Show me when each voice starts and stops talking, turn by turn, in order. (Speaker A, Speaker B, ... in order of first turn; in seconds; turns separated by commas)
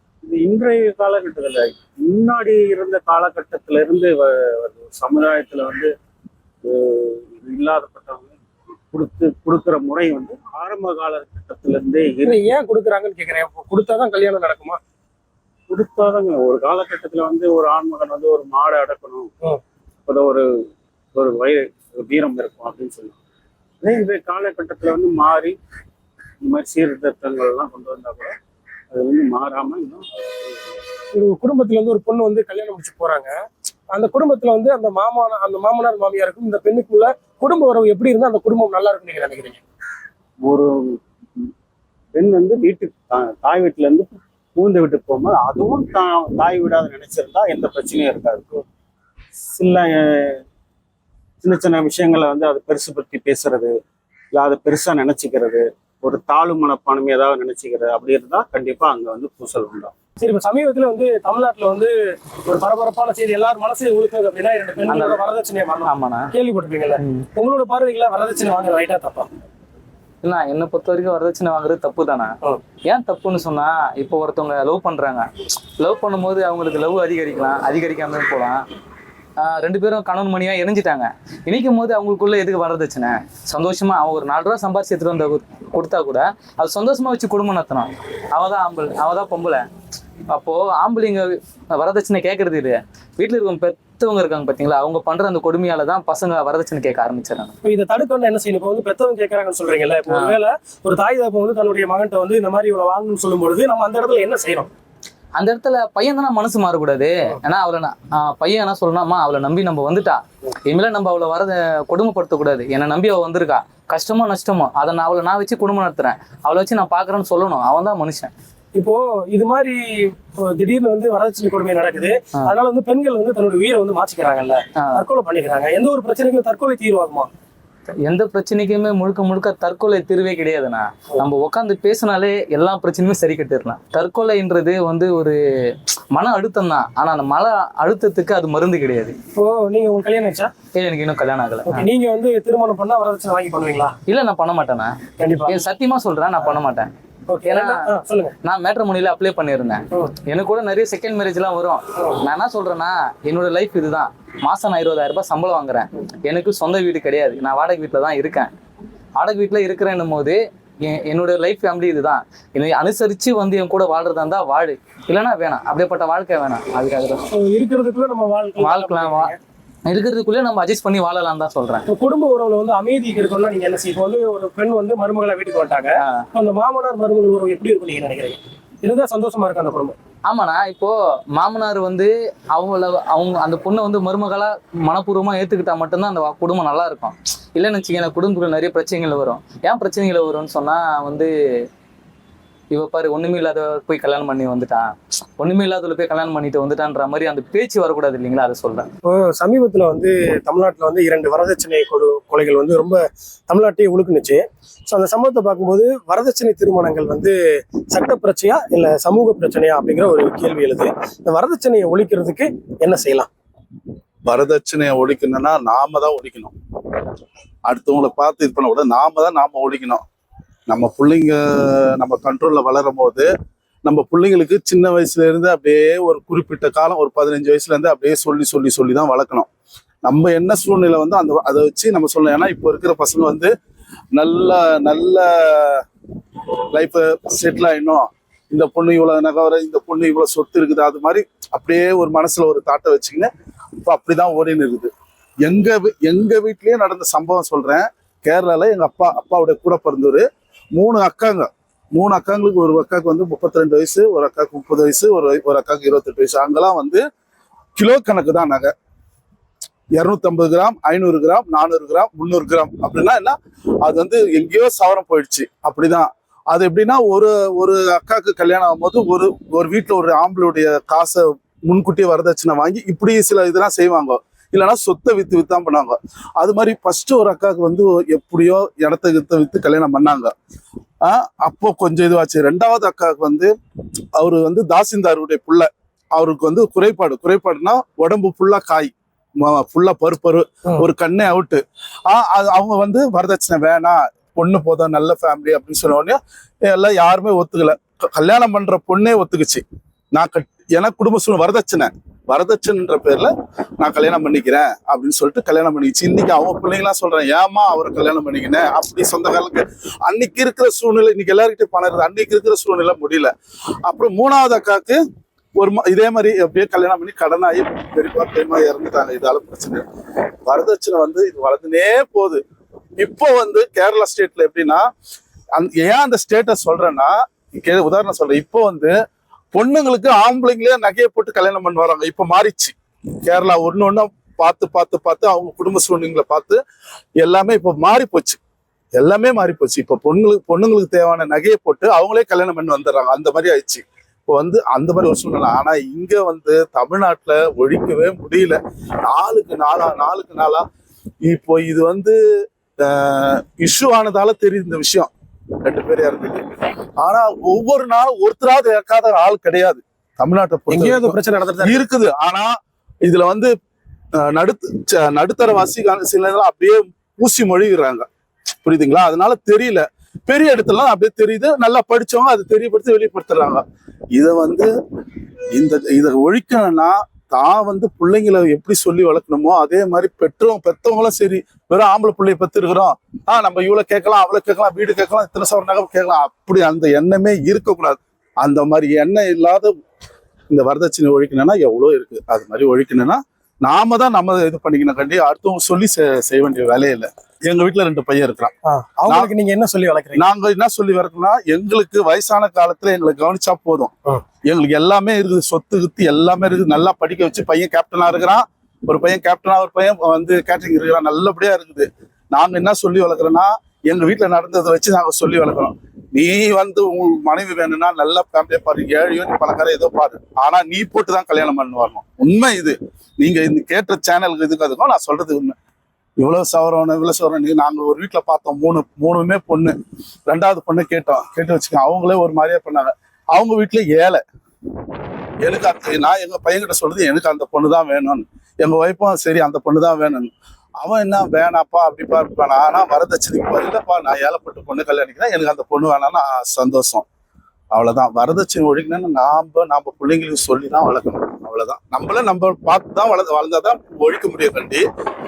Speaker A: 0.3-5.9, Speaker A: 6.7-8.4, Speaker A: 8.9-12.3, Speaker B: 12.2-14.8, Speaker A: 15.7-19.3, Speaker A: 20.1-20.4, Speaker A: 21.1-23.2, Speaker A: 23.8-25.6, Speaker A: 26.4-28.4, Speaker A: 28.9-30.8, Speaker B: 31.1-33.3, Speaker B: 33.9-39.6, Speaker A: 40.5-41.0, Speaker A: 42.1-48.5, Speaker A: 49.5-50.4, Speaker A: 51.4-53.7, Speaker A: 54.3-59.9, Speaker B: 60.2-61.9, Speaker B: 62.5-69.3, Speaker C: 64.9-65.2, Speaker C: 65.8-66.3, Speaker C: 67.0-67.3, Speaker C: 70.2-78.6, Speaker C: 79.4-89.7, Speaker C: 90.3-97.5, Speaker B: 97.6-104.7, Speaker C: 100.1-100.4, Speaker C: 105.4-118.3, Speaker B: 118.8-127.3, Speaker C: 128.0-135.4, Speaker C: 136.2-139.2, Speaker B: 139.3-140.5, Speaker C: 140.8-141.9, Speaker B: 141.7-143.9, Speaker C: 144.1-145.0, Speaker B: 145.2-145.6, Speaker C: 145.5-146.9, Speaker B: 147.3-148.3, Speaker C: 147.5-147.9, Speaker C: 148.4-158.5, Speaker C: 159.2-167.2, Speaker B: 167.3-169.4, Speaker C: 168.6-169.3, Speaker C: 169.9-171.9, Speaker B: 171.9-180.0, Speaker C: 176.0-176.3, Speaker C: 180.3-191.3, Speaker C: 192.7-198.9, Speaker B: 199.1-207.4, Speaker B: 207.9-213.3, Speaker D: 214.3-216.5, Speaker D: 217.7-220.0, Speaker D: 220.7-223.3, Speaker D: 223.8-229.5, Speaker D: 230.0-233.5, Speaker D: 234.2-235.8, Speaker D: 236.7-243.3, Speaker D: 243.8-244.9, Speaker D: 245.4-257.0, Speaker D: 257.8-258.7, Speaker D: 259.9-280.3, Speaker D: 281.0-283.5, Speaker D: 284.2-313.3, Speaker D: 313.9-315.0, Speaker D: 315.6-319.9, Speaker D: 320.5-322.4, Speaker D: 323.0-324.9, Speaker D: 325.6-328.9, Speaker D: 329.5-336.6, Speaker D: 337.2-338.4, Speaker D: 339.0-350.6, Speaker D: 351.2-352.2, Speaker D: 352.8-355.1, Speaker D: 355.6-356.4, Speaker D: 357.0-362.5, Speaker B: 360.7-361.8, Speaker D: 363.0-363.5, Speaker D: 364.2-368.1, Speaker D: 368.6-373.6, Speaker D: 374.1-374.7, Speaker D: 375.6-389.7, Speaker D: 390.5-398.5, Speaker B: 398.6-400.2, Speaker D: 400.1-403.9, Speaker D: 404.5-425.6, Speaker D: 426.2-429.8, Speaker D: 430.3-434.2, Speaker D: 435.4-447.1, Speaker D: 447.7-454.9